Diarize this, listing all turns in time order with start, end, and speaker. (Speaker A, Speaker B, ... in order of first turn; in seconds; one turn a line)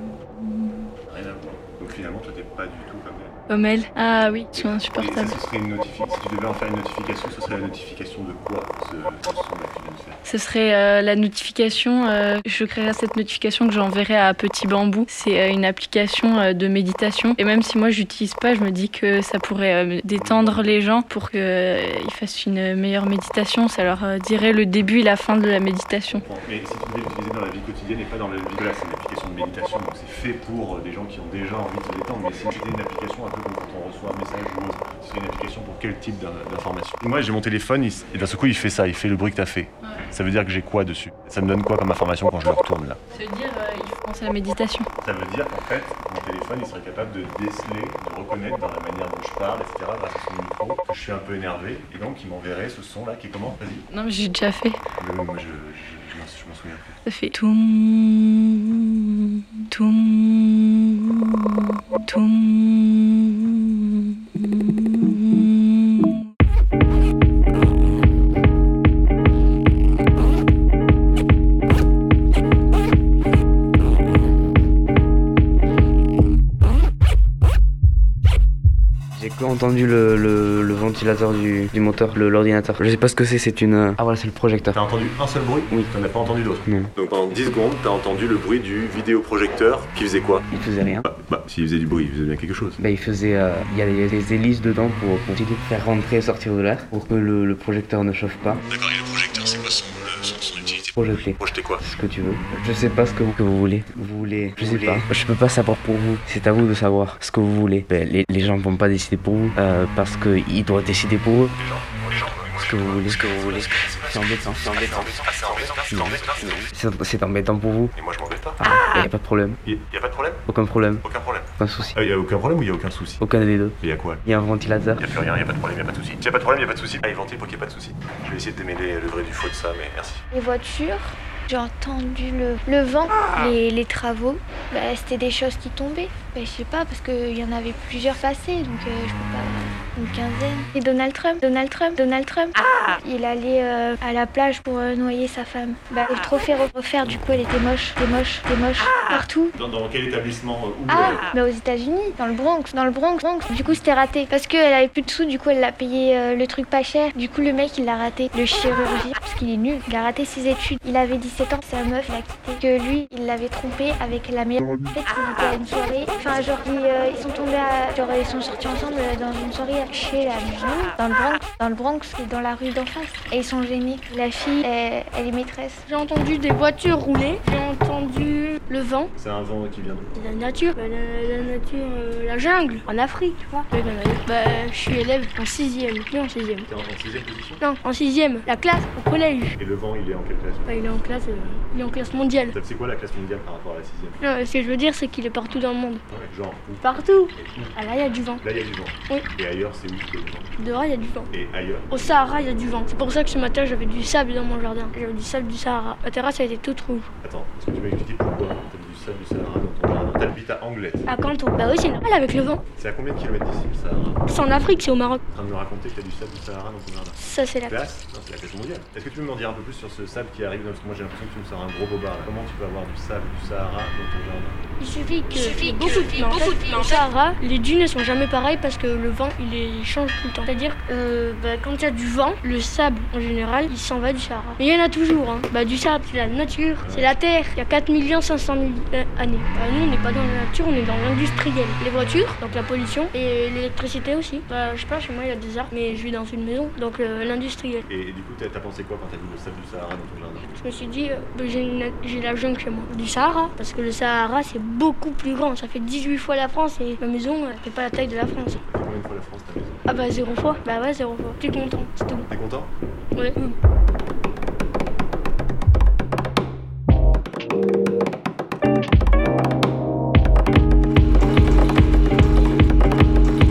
Speaker A: 0.4-0.8
Speaker B: 1.1-3.3
Speaker A: 3.5-5.4
Speaker B: 4.5-10.2
Speaker A: 10.2-26.2
Speaker B: 20.2-20.7
Speaker B: 26.2-43.0
Speaker A: 43.1-44.9
Speaker B: 45.0-53.9
Speaker A: 53.9-54.8
Speaker B: 55.0-56.9
Speaker A: 57.1-58.9
Speaker A: 59.7-61.3
Speaker A: 62.0-63.6
Speaker A: 64.4-66.1
Speaker C: 79.2-84.8
Speaker B: 84.7-90.5
Speaker C: 86.7-86.9
Speaker C: 90.5-91.0
Speaker B: 91.1-92.8
Speaker C: 92.8-98.6
Speaker B: 98.7-101.8
Speaker C: 101.0-111.5
Speaker B: 111.5-116.7
Speaker C: 112.6-115.2
Speaker C: 115.9-117.9
Speaker B: 117.9-118.6
Speaker C: 118.6-119.6
Speaker B: 119.6-120.5
Speaker C: 120.5-121.0
Speaker B: 121.0-123.2
Speaker C: 121.6-121.9
Speaker C: 123.2-125.1
Speaker B: 123.8-124.3
Speaker B: 125.0-130.2
Speaker D: 130.3-149.6
Speaker B: 149.6-151.2
Speaker D: 150.9-175.8
Speaker E: 175.9-179.1
Speaker B: 179.2-180.1
Speaker E: 180.2-186.7
Speaker B: 186.7-187.6
Speaker E: 187.6-189.5
Speaker B: 189.6-190.7
Speaker E: 190.7-192.6
Speaker B: 192.5-194.2
Speaker E: 194.2-196.0
Speaker B: 196.1-200.5
Speaker E: 196.8-198.4
Speaker E: 200.6-201.3
Speaker B: 201.3-201.9
Speaker E: 201.9-207.1
Speaker B: 207.2-211.1
Speaker E: 211.1-212.6
Speaker B: 212.8-214.2
Speaker E: 214.3-215.2
Speaker B: 215.3-224.6
Speaker E: 217.2-217.9
Speaker E: 224.8-247.8
Speaker B: 236.8-237.1
Speaker B: 247.9-250.6
Speaker E: 250.6-258.6
Speaker B: 258.7-259.8
Speaker E: 259.9-262.3
Speaker B: 262.3-262.7
Speaker E: 263.1-263.5